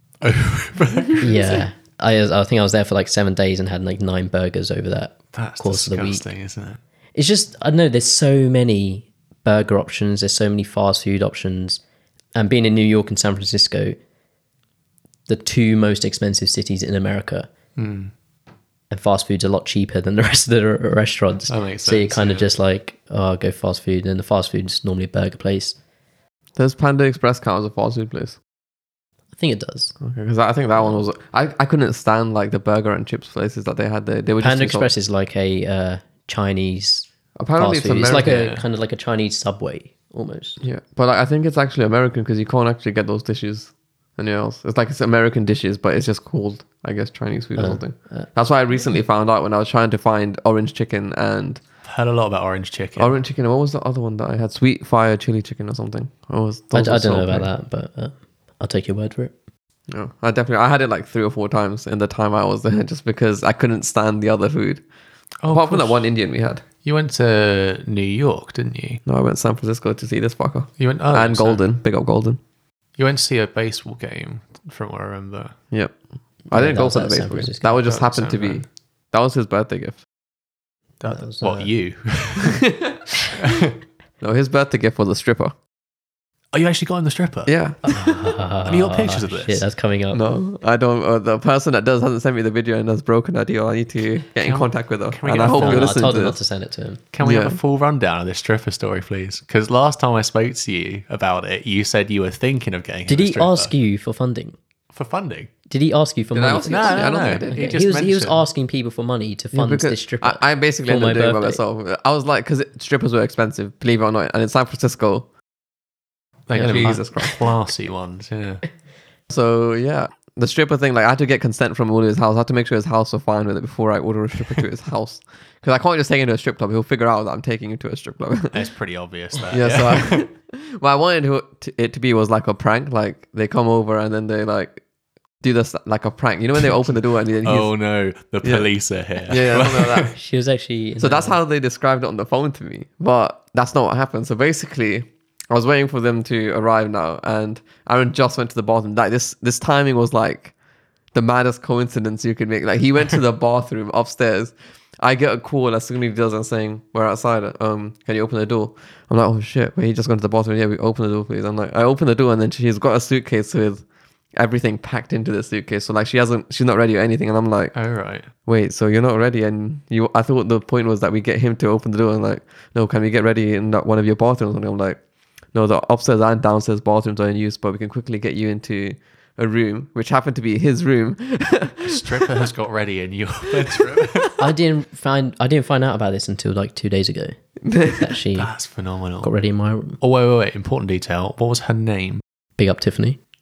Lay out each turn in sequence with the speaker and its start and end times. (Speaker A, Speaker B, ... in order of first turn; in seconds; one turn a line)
Speaker A: 0.2-1.6
Speaker B: 1.2-6.2
Speaker A: 5.3-6.8
Speaker B: 7.2-11.8
Speaker B: 12.4-14.0
Speaker B: 15.3-17.5
Speaker A: 17.8-18.1
Speaker B: 18.9-25.8
Speaker A: 21.5-22.5
Speaker C: 26.6-28.4
Speaker B: 29.4-29.9
Speaker C: 30.0-34.9
Speaker B: 34.4-40.6
Speaker C: 37.4-38.5
Speaker A: 38.3-38.6
Speaker C: 40.6-51.6
Speaker B: 47.6-48.3
Speaker A: 51.8-53.1
Speaker C: 53.0-57.5
Speaker B: 56.7-59.3
Speaker C: 59.9-64.8
Speaker A: 65.4-66.1
Speaker C: 65.5-66.6
Speaker A: 66.8-69.0
Speaker C: 69.1-72.4
Speaker A: 70.8-71.6
Speaker A: 73.0-75.5
Speaker C: 76.5-80.0
Speaker B: 76.5-77.8
Speaker A: 77.9-78.6
Speaker A: 81.0-82.7
Speaker B: 81.1-81.7
Speaker C: 82.4-83.0
Speaker A: 83.3-83.8
Speaker C: 84.2-85.5
Speaker A: 86.5-88.1
Speaker C: 87.5-87.9
Speaker B: 87.9-90.2
Speaker A: 88.6-89.6
Speaker C: 90.1-96.4
Speaker A: 94.4-96.1
Speaker B: 95.5-97.0
Speaker A: 97.1-103.7
Speaker C: 97.2-97.6
Speaker B: 103.1-104.6
Speaker A: 104.9-105.5
Speaker B: 105.7-111.6
Speaker C: 106.3-107.8
Speaker A: 106.7-108.4
Speaker C: 109.5-115.3
Speaker A: 116.5-118.6
Speaker C: 116.5-117.4
Speaker B: 116.6-116.8
Speaker C: 119.3-128.6
Speaker A: 128.5-130.3
Speaker C: 129.5-134.8
Speaker C: 135.4-137.8
Speaker A: 137.4-140.1
Speaker C: 138.4-138.7
Speaker C: 139.2-140.2
Speaker B: 140.2-141.4
Speaker C: 141.0-150.5
Speaker C: 151.1-163.8
Speaker C: 164.4-167.8
Speaker A: 167.8-168.3
Speaker C: 168.4-175.0
Speaker C: 175.5-182.3
Speaker A: 181.8-184.4
Speaker C: 183.6-184.1
Speaker B: 184.4-187.3
Speaker C: 187.7-188.1
Speaker B: 188.0-188.5
Speaker A: 188.3-189.3
Speaker B: 189.2-190.0
Speaker A: 190.0-192.2
Speaker B: 192.6-193.2